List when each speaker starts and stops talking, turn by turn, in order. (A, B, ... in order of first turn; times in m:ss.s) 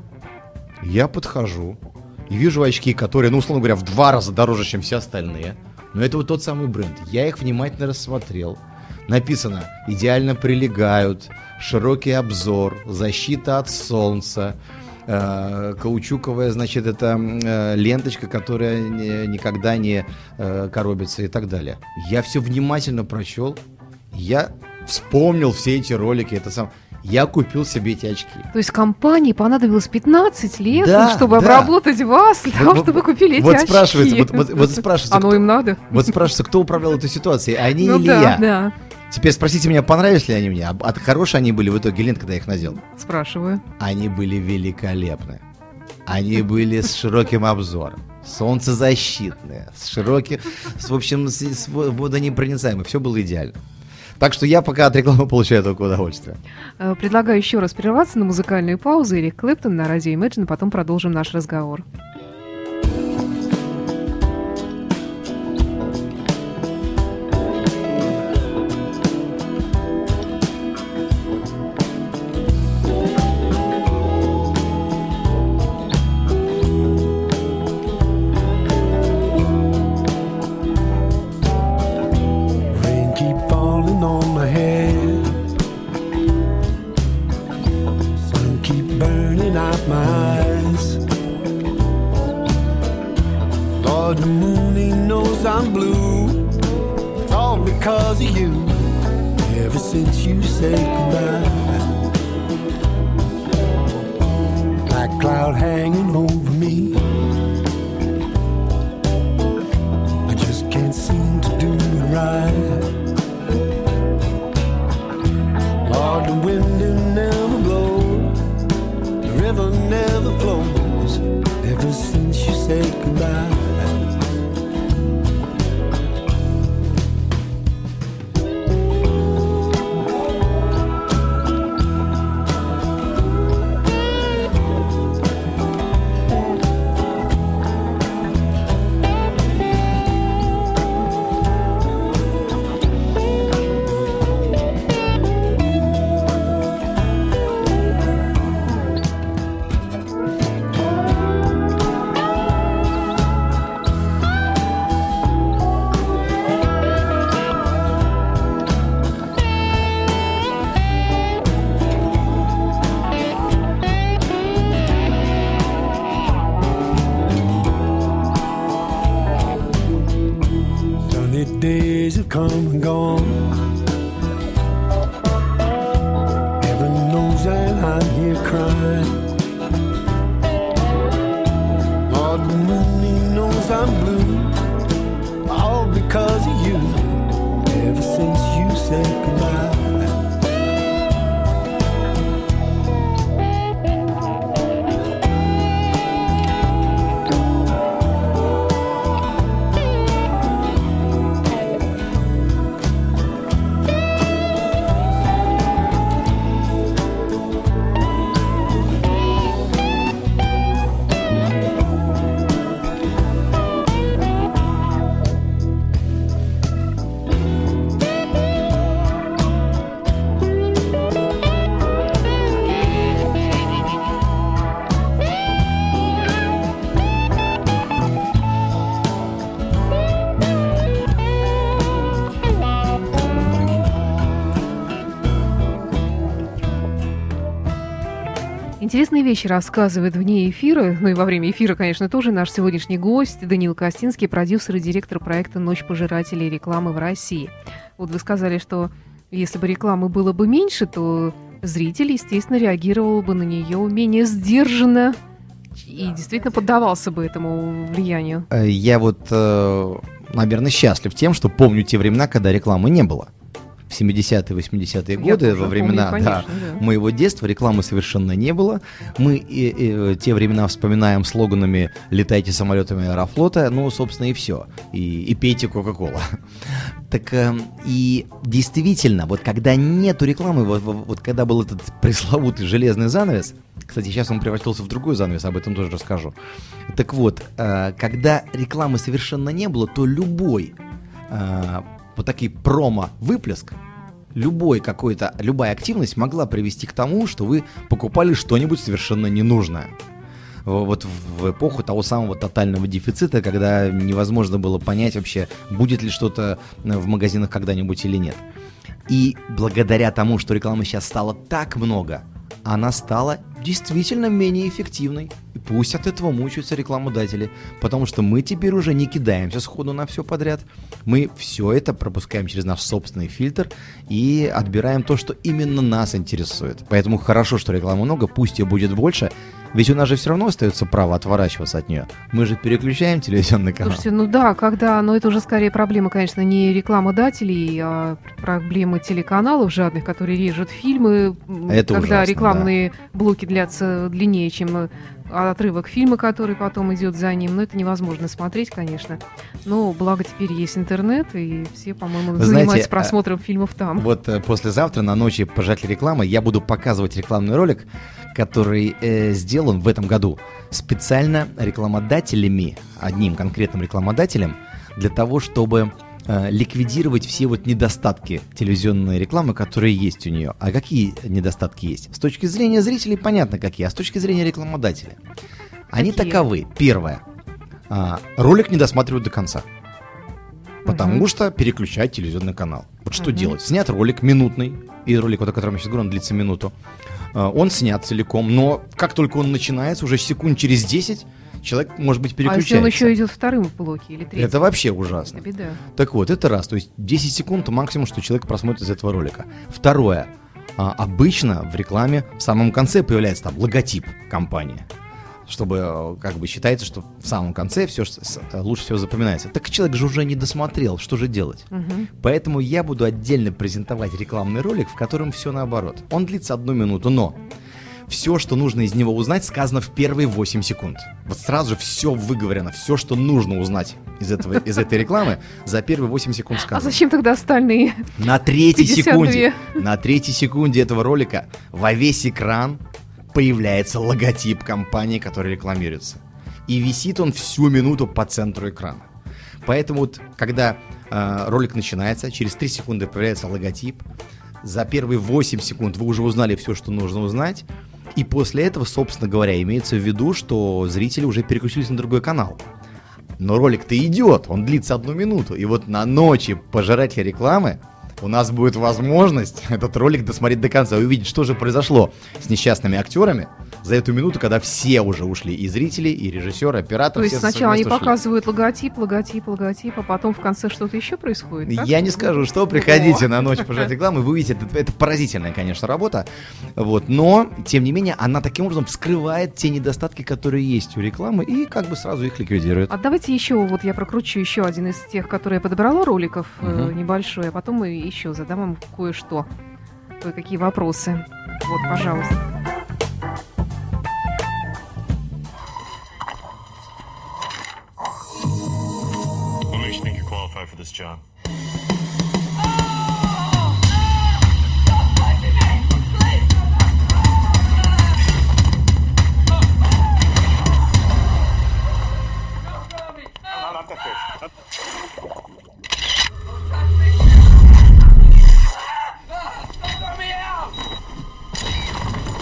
0:00.8-0:14.6 A
0:15.1-0:23.6 A
0:24.1-0:28.5 A
0:28.5-0:36.2 B
0:30.7-0:31.7 A
0:32.5-0:38.5 A
0:37.8-0:38.7 B
0:39.1-0:42.8 A
0:42.8-0:43.6 B
0:43.8-0:45.4 A
0:46.0-0:53.6 A
0:54.2-0:56.4 A
0:56.8-1:01.8 B
1:22.7-1:25.2 C
1:28.3-1:30.9 C
1:33.8-1:36.3 C
1:37.3-1:38.7 C
1:39.4-1:41.4 C
1:44.9-1:46.9 C
1:50.3-1:52.8 C
1:55.8-1:58.2 C
1:59.2-2:03.6 C
2:51.1-2:53.3 C
2:56.6-2:59.1 C
3:02.1-3:04.5 C
3:05.5-3:07.0 C
3:07.7-3:09.9 C
3:58.8-4:15.2 B
4:15.8-4:18.5 B
4:18.5-4:23.3 A
4:23.9-4:46.3 A
4:25.2-4:26.8 B
4:46.9-4:50.8 A
4:51.3-4:53.8 A
4:54.3-4:59.9 A
5:00.6-5:08.4 A
5:09.1-5:34.0 A
5:33.8-5:54.1 B
5:41.7-5:42.7 A
5:52.3-5:53.1 A
5:53.9-6:15.2 A
6:15.9-6:17.2 A
6:16.0-6:16.4 B
6:17.9-6:19.6 A
6:20.8-6:21.2 B
6:20.8-6:26.7 A
6:23.2-6:23.5 B
6:27.3-6:33.1 A
6:32.4-6:34.7 B
6:34.3-6:35.4 A
6:35.3-6:35.8 B
6:35.9-6:44.8 A
6:45.4-6:57.4 A
6:51.7-6:52.1 B
6:58.1-7:07.0 A
7:06.7-7:08.1 B
7:08.2-7:12.8 A
7:08.7-7:09.8 B
7:13.3-7:19.0 A
7:19.6-7:24.0 A
7:24.6-7:32.6 A
7:33.4-7:48.2 A
7:47.1-7:53.7 B
7:51.6-8:02.9 A
8:02.9-8:09.4 B
8:06.6-8:06.9 A
8:10.2-8:12.4 B
8:19.7-8:21.2 D
8:33.5-8:34.2 D